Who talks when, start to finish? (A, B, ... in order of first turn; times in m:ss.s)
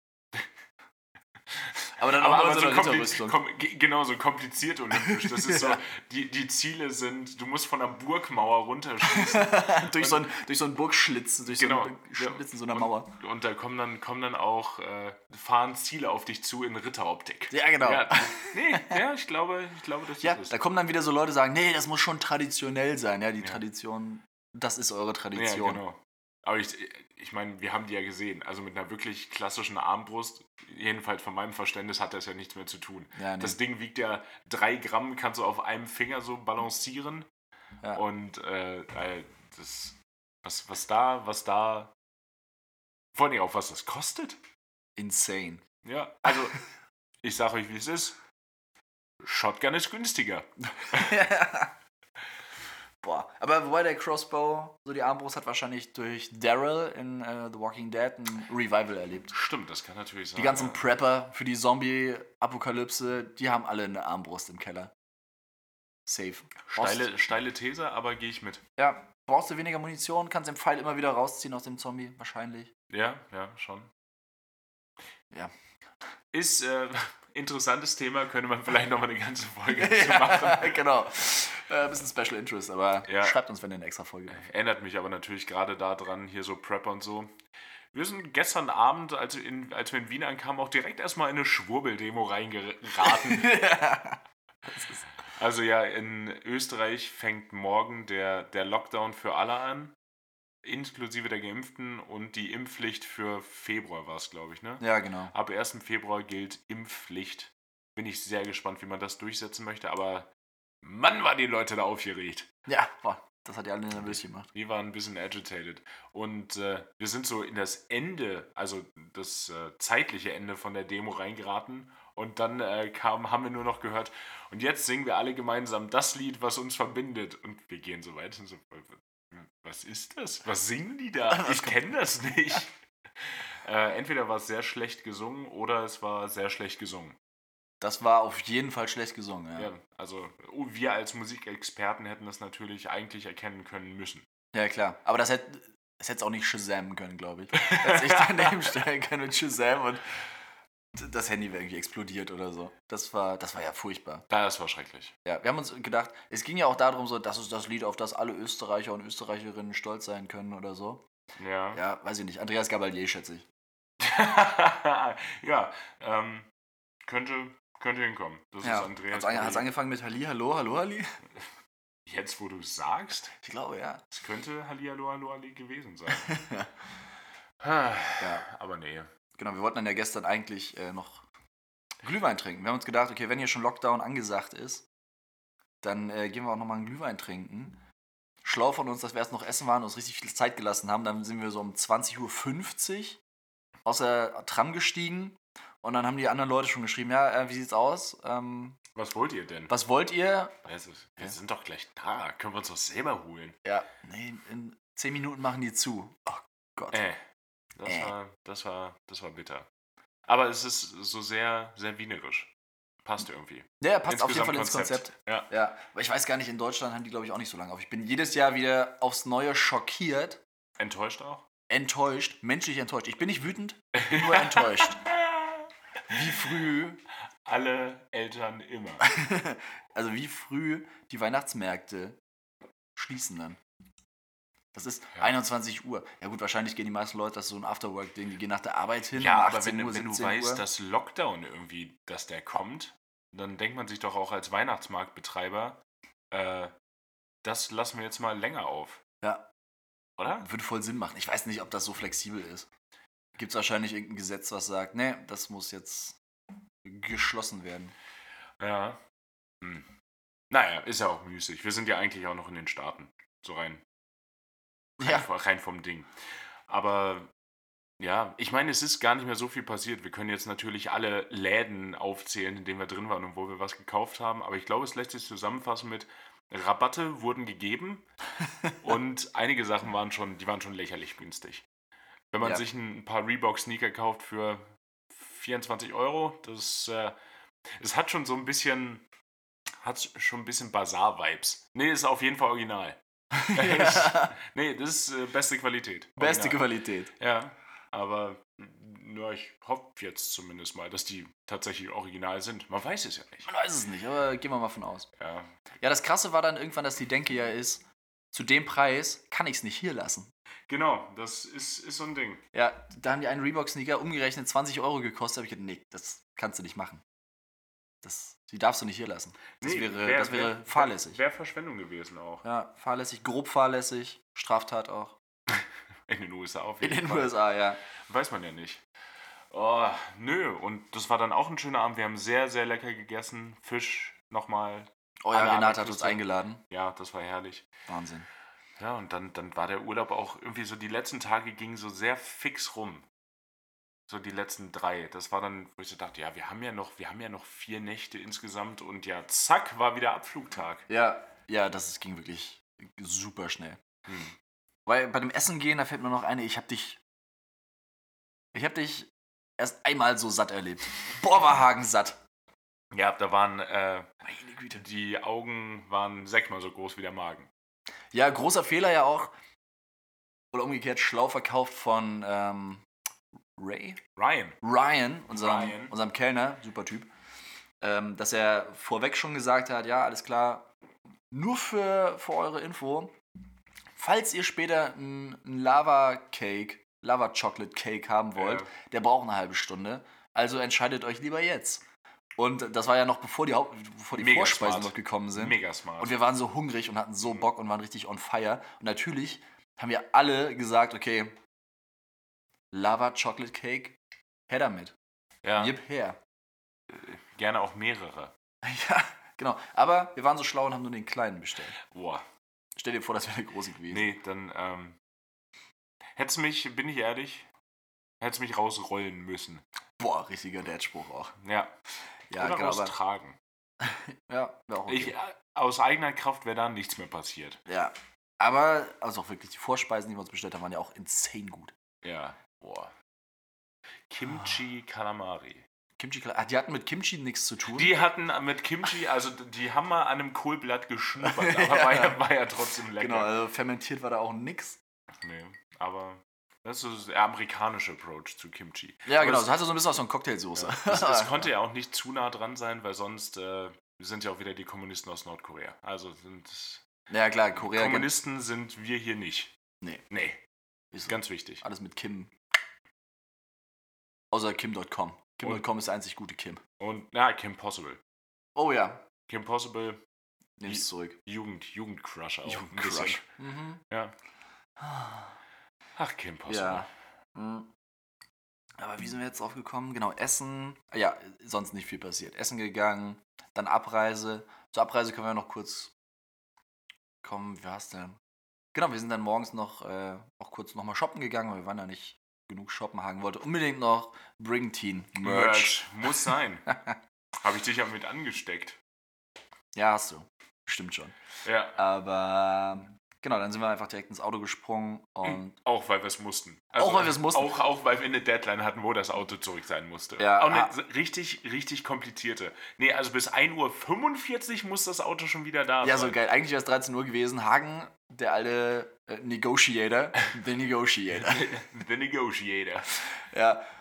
0:01.6-0:10.3 A
0:02.0-0:03.4 B
0:05.0-0:05.8 B
0:09.0-0:13.1 B
0:11.5-0:20.6 A
0:17.5-0:19.0 B
0:20.2-0:25.8 B
0:25.3-0:37.3 A
0:33.2-0:33.6 B
0:37.9-0:41.9 A
0:43.1-0:44.4 A
0:45.0-0:45.6 B
0:45.8-0:46.6 A
0:47.2-0:48.2 A
0:49.2-0:51.2 A
0:50.8-0:51.7 B
0:53.0-0:59.3 B
0:59.3-1:00.8 A
1:00.4-1:04.9 B
1:06.0-1:07.0 B
1:06.7-1:08.6 A
1:08.8-1:12.7 B
1:12.9-1:13.9 A
1:16.3-1:20.8 A
1:19.7-1:24.4 B
1:23.0-1:23.4 A
1:24.3-1:27.3 A
1:27.9-1:33.5 A
1:33.0-1:35.0 B
1:35.3-1:39.9 A
1:40.6-1:50.3 A
1:44.8-1:45.3 B
1:50.8-1:52.5 A
1:52.6-1:54.5 B
1:54.5-2:17.2 A
2:11.3-2:11.8 B
2:17.8-2:19.7 B
2:19.6-2:24.2 A
2:24.5-2:30.1 B
2:27.5-2:28.7 A
2:30.9-2:34.2 B
2:34.3-2:35.1 A
2:35.2-2:41.0 B
2:41.4-2:41.8 A
2:41.7-2:43.4 B
2:44.0-2:46.5 A
2:47.0-2:49.7 A
2:48.6-2:51.1 B
2:52.0-2:53.3 A
2:53.4-2:54.0 B
2:54.1-2:56.4 A
2:56.2-2:56.7 B
2:57.6-2:59.1 A
2:58.2-2:58.4 B
2:59.4-3:01.2 B
3:02.0-3:04.8 B
3:05.8-3:07.8 B
3:08.4-3:13.2 B
3:13.8-3:18.8 B
3:19.0-3:19.7 A
3:19.7-3:20.5 B
3:20.6-3:23.6 A
3:23.6-3:27.0 B
3:26.9-3:27.2 A
3:27.8-3:29.7 A
3:27.8-3:28.1 B
3:30.3-3:32.5 A
3:33.0-3:35.5 A
3:33.8-3:40.4 B
3:40.8-3:41.4 A
3:41.7-3:45.0 B
3:43.9-3:46.6 A
3:46.1-3:47.0 B
3:47.4-3:49.1 A
3:49.0-3:52.2 B
3:53.0-3:53.6 B
3:54.7-4:00.6 B
3:59.2-4:05.8 A
4:06.3-4:06.7 A
4:07.4-4:09.0 A
4:09.2-4:09.5 B
4:10.2-4:10.5 A
4:10.4-4:12.7 B
4:13.4-4:16.2 B
4:16.8-4:17.9 B
4:18.6-4:19.0 A
4:19.6-4:19.9 A
4:20.5-4:23.8 A
4:25.0-4:25.3 B
4:25.0-4:26.1 A
4:26.7-4:27.3 A
4:28.0-4:38.1 A
4:38.8-4:41.6 A
4:42.3-4:47.2 A
4:47.8-4:49.0 A
4:49.8-4:56.6 A
4:53.3-4:54.3 B
4:56.2-4:57.1 B
4:57.2-5:03.5 A
5:03.4-5:05.1 B
5:05.2-5:05.5 A
5:05.8-5:10.3 B
5:10.7-5:12.4 A
5:12.5-5:17.0 B
5:18.0-5:21.2 B
5:19.6-5:22.4 A
5:22.4-5:25.2 B
5:25.5-5:27.3 A
5:26.8-5:27.8 B
5:28.0-5:28.8 A
5:29.5-5:37.7 A
5:35.2-5:36.6 B
5:37.9-5:38.3 B
5:38.8-5:43.0 A
5:44.1-5:50.8 A
5:50.9-5:53.8 B
5:54.1-5:54.3 A
5:54.8-5:57.0 B
5:58.5-6:02.2 B
6:02.9-6:04.1 A
6:04.2-6:04.8 B
6:04.7-6:07.5 A
6:08.1-6:09.3 B
6:10.5-6:12.8 B
6:13.6-6:14.0 B
6:14.2-6:14.6 A
6:14.6-6:17.1 B
6:15.3-6:15.9 A
6:17.8-6:20.7 B
6:21.3-6:23.1 B
6:23.9-6:31.8 B
6:28.4-6:28.7 A
6:32.4-6:41.4 B
6:34.1-6:36.2 A
6:42.7-6:44.0 B
6:44.5-6:44.9 B
6:45.4-6:45.8 A
6:45.6-6:46.2 B
6:46.9-6:48.3 A
6:48.6-6:51.7 B
6:51.8-6:52.2 A
6:52.8-6:54.1 B
6:53.9-6:55.0 A
6:56.2-6:57.5 A
6:58.2-6:59.6 A
7:00.0-7:01.3 B
7:01.4-7:01.7 A
7:02.3-7:02.9 B
7:02.4-7:03.4 A
7:03.8-7:05.1 B
7:04.9-7:07.6 A
7:07.7-7:11.7 B
7:12.0-7:12.9 A
7:14.1-7:15.6 A
7:16.0-7:17.9 B
7:17.7-7:23.3 A
7:21.2-7:22.2 B
7:23.0-7:24.8 B
7:25.2-7:29.6 A
7:29.0-7:31.5 B
7:30.6-7:36.8 A
7:37.1-7:38.1 B
7:37.5-7:39.5 A
7:40.1-7:40.4 A
7:40.9-7:42.3 B
7:41.0-7:41.6 A
7:44.3-7:46.6 B
7:46.8-7:48.0 A
7:48.5-7:49.0 B
7:49.3-7:50.0 A
7:50.6-7:51.2 B
7:50.6-7:53.2 A
7:52.4-7:53.8 B
7:54.8-7:55.3 B
7:56.0-7:56.9 A
7:56.5-7:57.7 B
7:58.8-8:05.9 B
8:07.2-8:08.2 B
8:08.7-8:17.0 B
8:15.2-8:16.7 A
8:17.4-8:18.8 A
8:19.7-8:21.1 B
8:21.4-8:21.8 A
8:21.7-8:25.5 B
8:25.2-8:36.2 A
8:26.8-8:27.5 B
8:30.2-8:30.7 B
8:35.8-8:41.5 B
8:41.2-8:43.0 A
8:43.2-8:43.6 B